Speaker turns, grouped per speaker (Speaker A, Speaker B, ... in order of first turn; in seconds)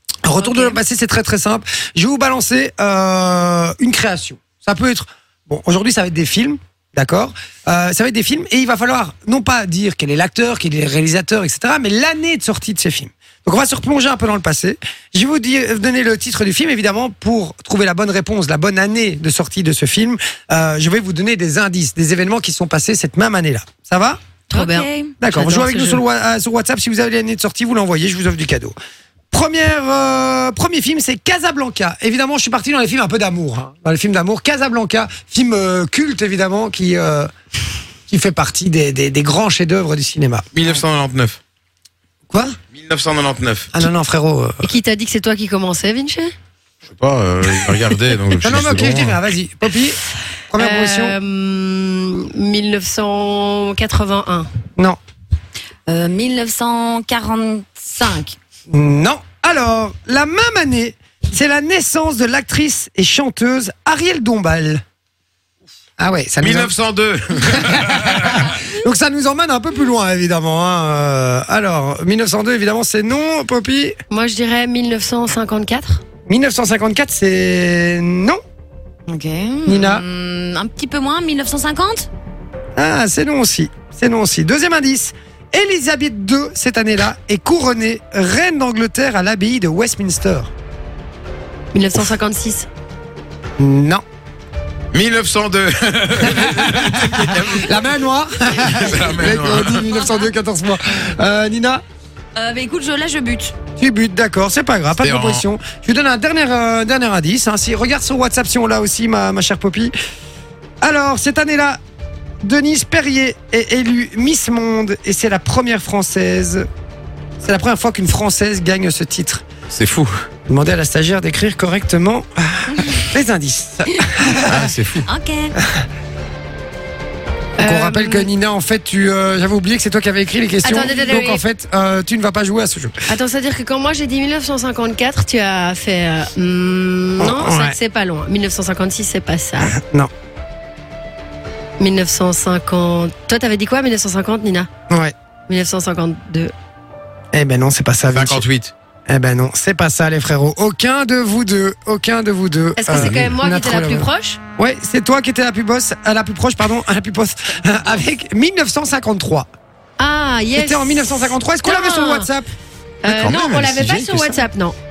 Speaker A: 0.2-24.2, 25.2-28.7, 29.3-37.3, 38.1-40.5, 42.3-42.6, 43.7-44.7, 48.4-50.0, 50.5-51.2, 58.7-64.8, 66.0-66.7, 67.5-74.0, 76.3-78.4, 79.7-80.0, 82.8-90.5, 93.6-94.0, 96.2-101.8, 103.8-109.9, 110.8-111.8, 112.4-116.7, 117.4-119.4, 120.5-124.7, 127.6-133.0, 137.2-137.8, 139.6-140.1, 147.3-148.4, 149.1-159.5, 160.6-162.5
Speaker B: 0.3-0.8, 24.5-25.1, 55.9-58.4, 79.1-82.1, 102.3-103.5, 125.0-125.5
Speaker C: 24.5-26.0, 44.6-46.3, 50.6-54.5, 74.1-76.0, 91.7-92.7, 127.6-128.3, 130.6-131.4, 133.1-139.7, 141.8-144.7, 145.5-146.5, 152.8-154.4, 160.0-162.3, 163.0-164.8
Speaker D: 40.5-41.4, 42.7-43.7, 46.9-49.2, 66.4-68.5, 94.9-97.9, 98.6-99.9, 105.0-105.5, 119.7-120.1, 124.4-125.1, 148.1-148.7, 152.9-153.3, 163.0-164.3